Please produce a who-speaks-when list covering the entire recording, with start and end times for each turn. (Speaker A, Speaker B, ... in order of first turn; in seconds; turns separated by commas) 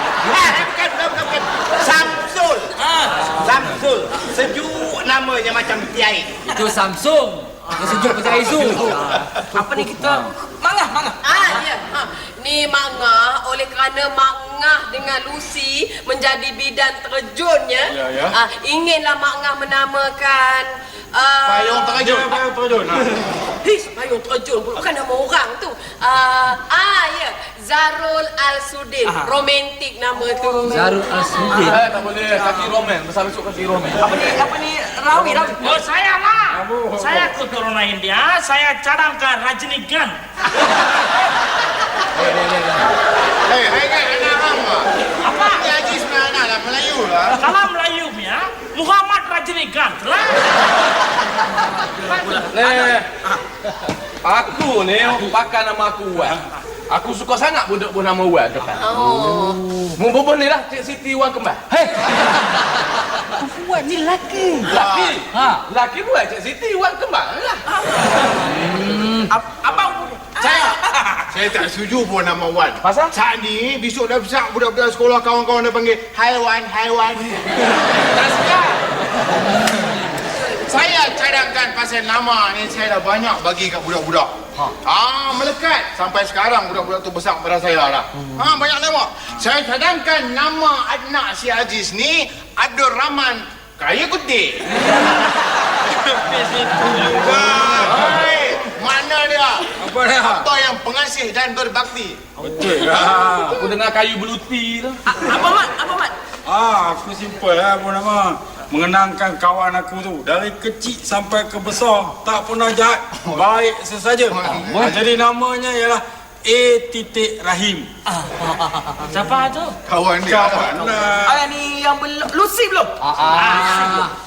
Speaker A: 0.3-2.7, Speaker B: 2.8-3.5, Speaker A: 3.4-6.3, Speaker C: 6.5-9.3, Speaker B: 7.8-11.6, Speaker C: 9.9-10.3, Speaker D: 11.2-22.0, Speaker E: 17.9-18.3, Speaker F: 21.5-22.3, Speaker E: 22.0-23.3, Speaker D: 23.6-31.0, Speaker B: 29.1-29.4, Speaker C: 30.7-31.8, Speaker B: 31.5-31.8, Speaker G: 31.6-34.2, Speaker B: 34.0-35.8, Speaker H: 35.6-40.2, Speaker E: 36.5-37.4, Speaker G: 42.2-42.9, Speaker F: 43.5-44.9, Speaker H: 45.2-45.7, Speaker F: 45.4-47.4, Speaker H: 47.4-50.7, Speaker B: 52.1-53.4, Speaker H: 52.1-52.4, Speaker G: 52.5-53.1, Speaker G: 54.2-56.4, Speaker G: 56.9-58.9, Speaker D: 58.8-59.6, Speaker C: 59.0-59.3, Speaker G: 60.0-61.6, Speaker C: 61.7-64.8, Speaker B: 64.6-65.0, Speaker F: 64.7-65.2, Speaker G: 64.9-67.6, Speaker C: 65.3-65.6, Speaker B: 67.7-68.3, Speaker C: 68.5-69.3, Speaker B: 69.3-71.3, Speaker F: 71.3-77.3, Speaker B: 72.8-73.1, Speaker D: 80.5-80.7, Speaker F: 80.7-94.6, Speaker E: 96.1-98.2, Speaker F: 97.5-99.7, Speaker E: 99.8-100.5, Speaker F: 100.2-102.2, Speaker E: 102.4-103.7, Speaker G: 103.5-105.0, Speaker B: 105.1-106.2, Speaker E: 106.5-117.9, Speaker F: 114.3-114.9, Speaker C: 114.5-114.9, Speaker H: 119.1-119.8, Speaker F: 119.9-120.8, Speaker E: 120.2-121.4, Speaker B: 121.2-122.9, Speaker C: 123.0-124.1, Speaker H: 123.3-124.1